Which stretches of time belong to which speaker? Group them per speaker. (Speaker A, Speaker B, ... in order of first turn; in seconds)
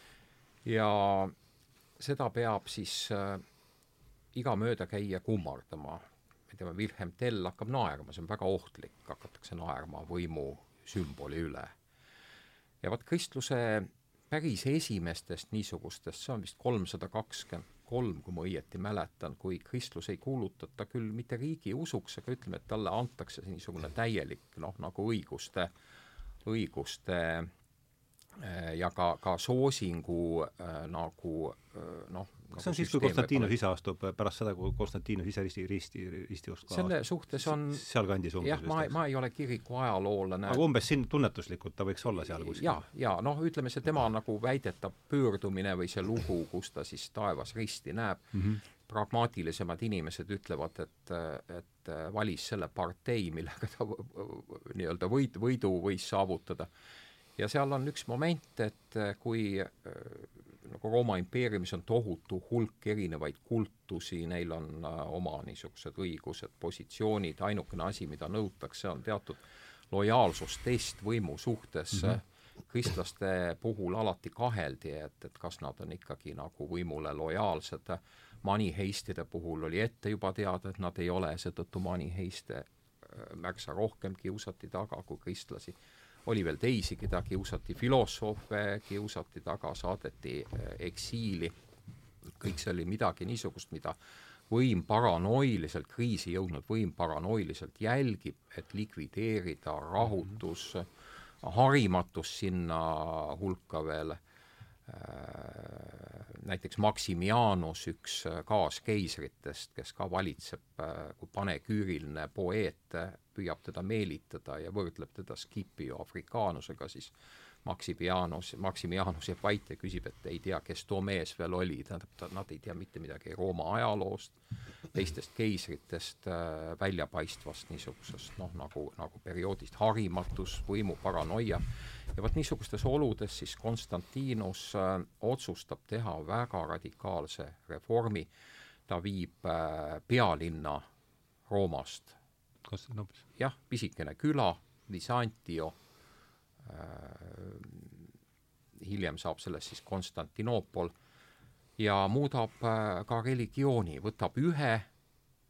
Speaker A: 0.6-1.3, 2.0-3.4, 4.3-11.7, 12.8-25.7, 26.4-27.5, 28.4-33.5, 36.7-37.8, 38.4-40.6, 42.4-56.7, 57.4-85.7, 86.2-91.5, 92.3-94.0, 94.5-104.2, 104.9-117.1, 117.6-124.3, 124.9-138.3, 138.9-140.8, 141.5-142.2, 143.4-145.8, 146.6-148.1, 148.8-150.9, 151.8-154.9
Speaker B: 32.5-38.9, 40.5-42.8, 48.3-48.6, 142.6-143.2